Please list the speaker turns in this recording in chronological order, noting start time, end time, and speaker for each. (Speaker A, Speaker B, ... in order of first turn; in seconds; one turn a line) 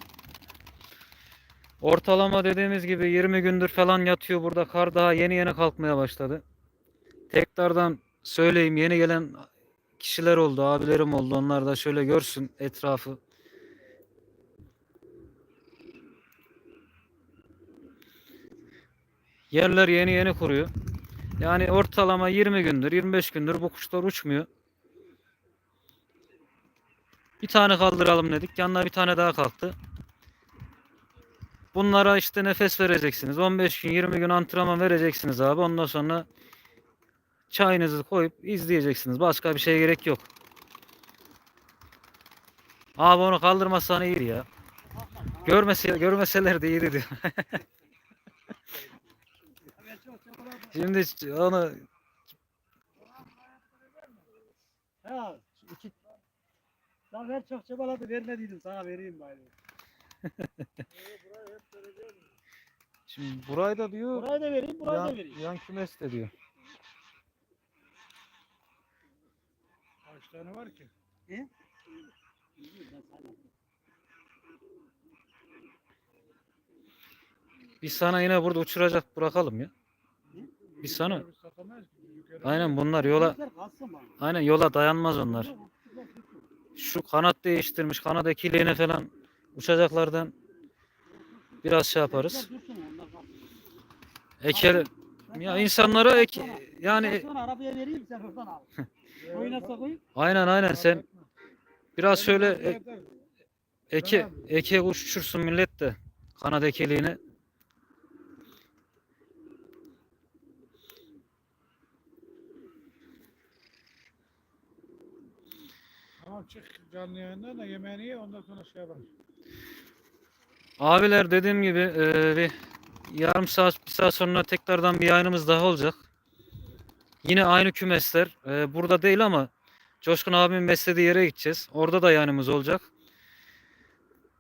Speaker A: 1.8-6.4
Speaker A: 7.3-9.5
Speaker A: 10.0-13.2
Speaker A: 19.5-20.7
Speaker A: 21.4-24.5
Speaker A: 27.4-29.8
Speaker A: 31.7-36.3
Speaker A: 37.5-40.3
Speaker A: 43.0-44.5
Speaker B: 44.9-45.8
Speaker A: 45.5-47.6
Speaker B: 49.6-50.8
Speaker A: 50.7-51.8
Speaker C: 53.2-54.2
Speaker B: 55.0-55.5
Speaker A: 55.6-55.9
Speaker B: 57.1-59.5
Speaker A: 60.3-60.6
Speaker C: 61.0-62.2
Speaker A: 63.1-64.3
Speaker B: 64.1-65.4
Speaker A: 64.8-66.3
Speaker C: 70.0-70.9
Speaker B: 72.6-73.5
Speaker A: 77.8-79.7
Speaker C: 80.7-82.8
Speaker A: 80.8-81.2
Speaker A: 82.4-83.4
Speaker B: 82.9-84.2
Speaker A: 84.2-85.5
Speaker B: 85.2-86.5
Speaker A: 86.8-90.3
Speaker B: 91.1-93.6
Speaker A: 91.6-92.5
Speaker A: 94.4-97.2
Speaker B: 94.5-98.7
Speaker C: 99.2-99.8
Speaker B: 99.3-100.0
Speaker A: 100.2-101.0
Speaker C: 100.6-101.3
Speaker A: 102.0-102.8
Speaker C: 102.1-103.1
Speaker A: 103.9-107.2
Speaker C: 104.0-104.5
Speaker C: 116.2-119.1
Speaker A: 120.8-122.5
Speaker A: 123.1-126.0
Speaker A: 127.2-129.5
Speaker A: 130.0-132.9